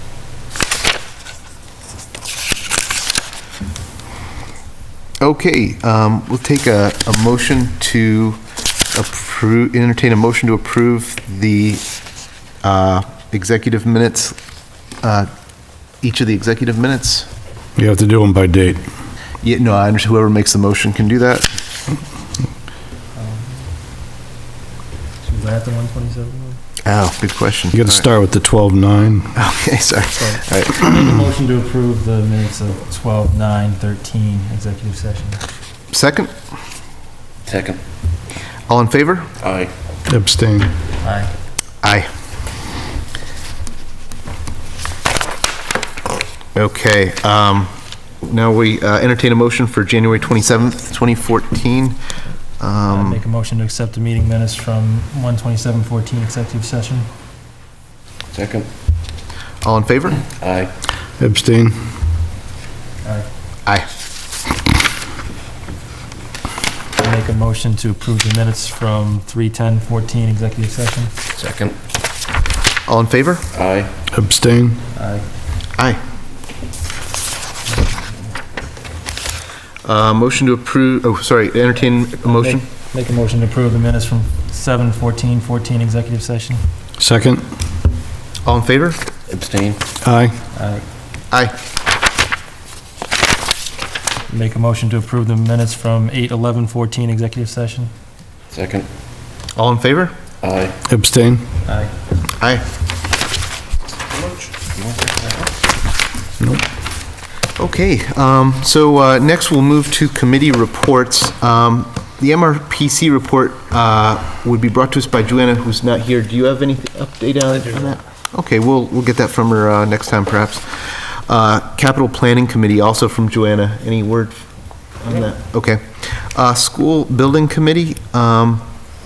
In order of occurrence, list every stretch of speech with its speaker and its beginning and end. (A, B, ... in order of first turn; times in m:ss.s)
0:05.2-0:08.4 A
0:08.9-0:11.8 A
0:12.6-0:14.4 A
0:15.0-0:15.3 A
0:16.0-0:17.3 A
0:17.8-0:18.8 B
0:19.4-0:21.5 A
0:23.1-0:23.7 C
0:25.2-0:26.6 C
0:26.8-0:28.1 A
0:27.7-0:29.4 B
0:29.3-0:30.8 A
0:30.2-0:35.4 C
0:35.9-0:36.3 A
0:37.4-0:37.8 D
0:38.7-0:39.3 A
0:39.4-0:39.7 D
0:40.1-0:40.7 B
0:41.0-0:41.3 C
0:41.8-0:42.1 A
0:46.5-0:47.7 A
0:48.2-0:52.0 A
0:52.6-0:53.2 A
0:52.9-0:57.1 C
0:58.3-0:58.7 D
0:59.6-1:00.2 A
1:00.3-1:00.7 D
1:01.2-1:01.9 B
1:03.0-1:03.3 C
1:07.0-1:11.1 C
1:11.4-1:11.8 D
1:12.9-1:13.4 A
1:13.5-1:13.9 D
1:14.1-1:14.8 B
1:14.9-1:15.2 C
1:19.8-1:22.6 A
1:22.2-1:26.6 C
1:27.0-1:27.4 B
1:28.4-1:29.0 A
1:29.3-1:29.8 D
1:30.0-1:30.4 B
1:30.5-1:30.8 C
1:34.3-1:37.9 C
1:38.5-1:38.9 D
1:39.6-1:40.1 A
1:40.4-1:40.8 D
1:40.9-1:41.4 B
1:41.6-1:42.0 C
1:44.1-1:45.5 D
1:46.4-1:46.6 B
1:47.6-2:04.4 A
2:05.0-2:08.6 A